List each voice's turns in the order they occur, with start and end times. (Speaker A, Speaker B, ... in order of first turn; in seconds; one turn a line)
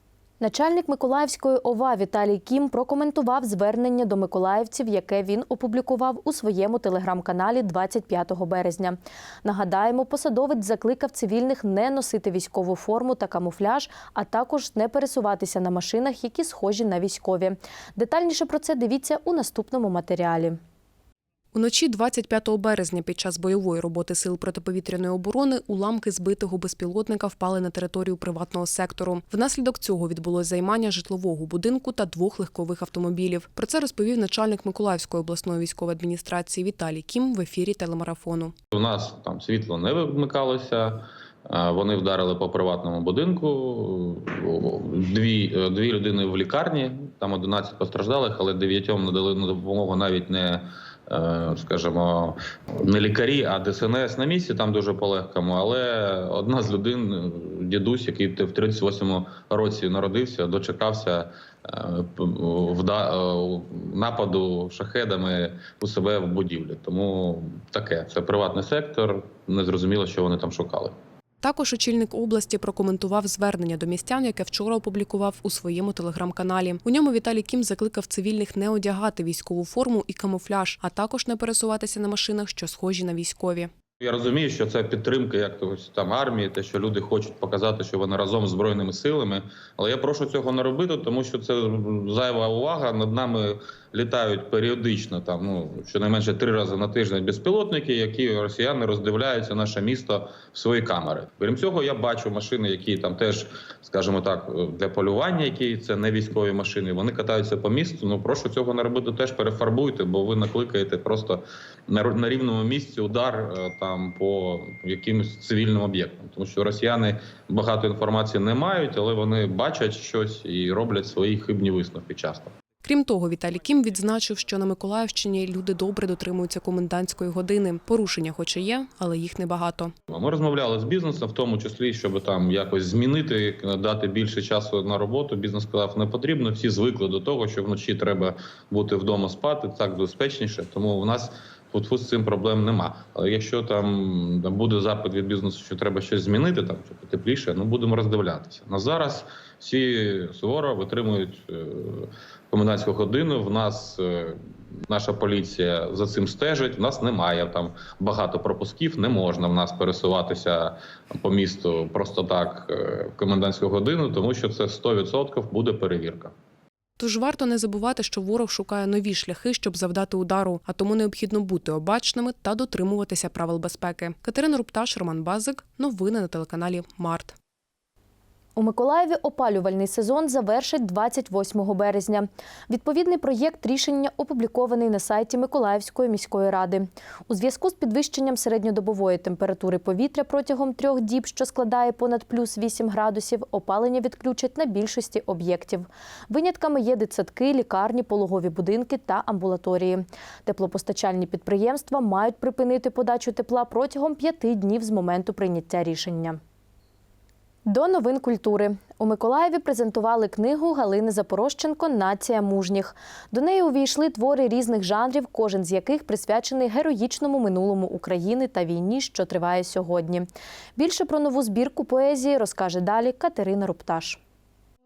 Speaker A: 0.4-20.6
Speaker B: 21.5-38.5
Speaker C: 38.7-71.0
Speaker B: 71.4-83.7
Speaker C: 84.0-122.5
Speaker B: 122.8-129.9
Speaker C: 130.1-166.3
Speaker B: 167.0-177.3
Speaker A: 178.6-206.4
Speaker A: 207.7-224.2